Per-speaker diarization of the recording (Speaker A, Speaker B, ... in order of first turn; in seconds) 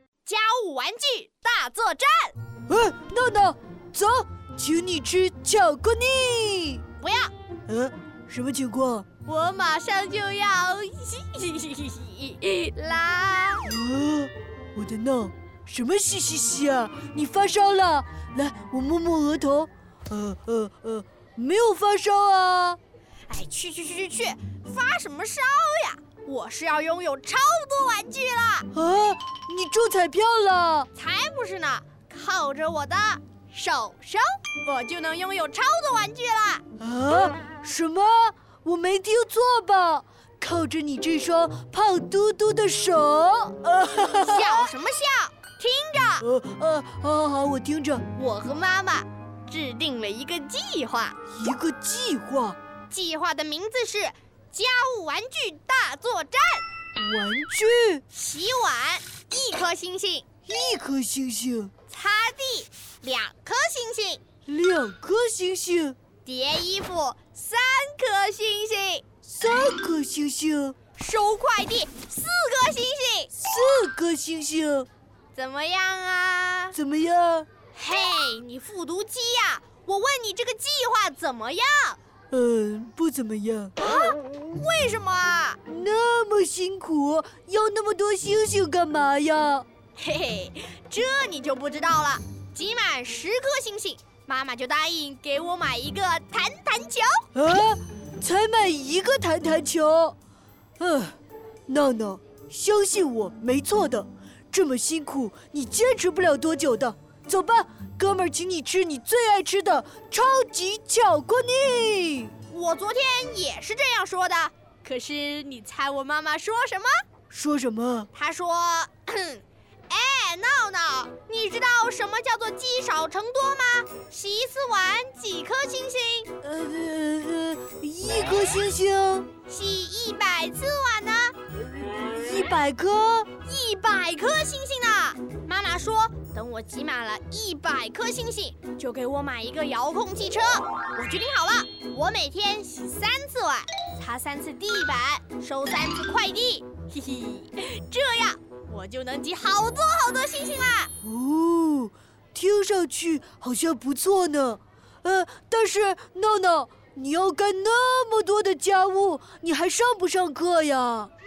Speaker A: 0.2-2.4, 7.0-7.3, 9.2-13.7, 23.3-28.7, 30.9-36.6, 44.2-46.3, 48.1-51.2, 52.9-56.7, 58.1-60.3, 61.9-64.2, 66.2-69.0, 71.0-73.3, 75.3-76.8, 77.7-82.0, 83.8-85.6, 90.0-97.3, 112.5-117.0, 118.1-126.3, 129.5-131.4, 133.4-150.9
Speaker B: 2.7-6.8, 7.7-9.1, 13.7-22.8, 28.7-30.9, 36.8-44.7, 46.2-48.1, 51.3-52.6, 57.0-58.0, 60.5-61.7, 64.5-66.0, 69.2-70.8, 73.3-74.9, 76.7-77.5, 82.3-83.8, 85.7-89.7, 97.3-100.2, 100.8-112.3, 117.3-118.1, 126.4-129.3, 132.1-133.3, 151.0-161.1